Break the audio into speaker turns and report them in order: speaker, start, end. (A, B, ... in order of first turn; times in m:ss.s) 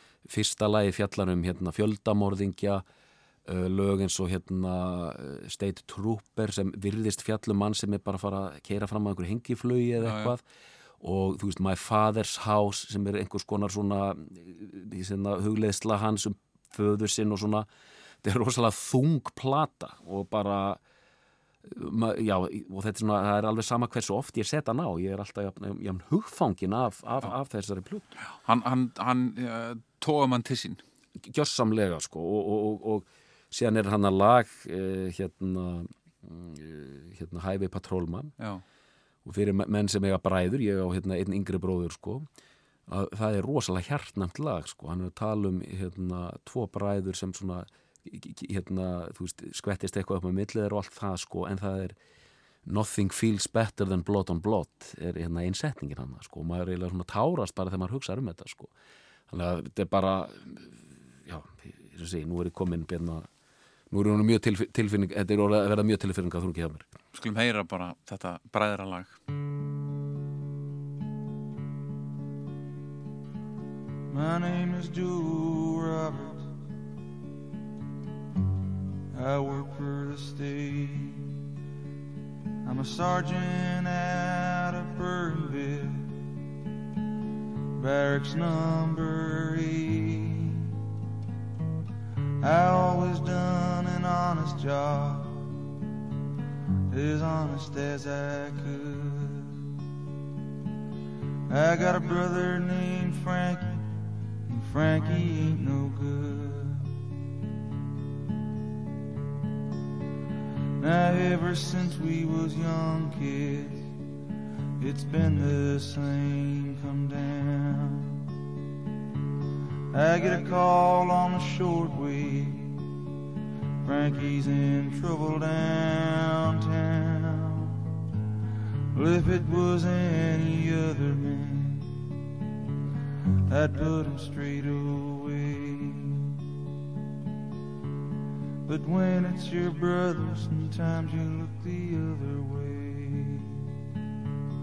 0:00.2-0:02.8 A
0:03.5-0:10.4 A
0:10.0-0:10.3 B
0:11.0-0:17.7 A
0:18.2-0:20.8 A
0:21.6-0:28.1 A
0:28.3-0:30.8 B
0:31.2-0:38.3 A
0:39.2-0:42.3 A
0:42.9-0:51.9 A
0:52.6-0:58.7 A
0:59.3-1:03.3 A
1:03.9-1:06.9 A
1:07.1-1:09.2 B
1:14.1-1:16.5 C
1:19.1-1:21.3 C
1:22.6-1:26.2 C
1:27.8-1:30.7 C
1:32.4-1:35.5 C
1:36.9-1:39.6 C
1:41.5-1:43.9 C
1:44.5-1:46.9 C
1:50.8-1:53.9 C
1:54.8-1:58.2 C
1:59.9-2:02.9 C
2:03.8-2:07.8 C
2:08.9-2:12.1 C
2:13.5-2:16.4 C
2:18.6-2:23.6 C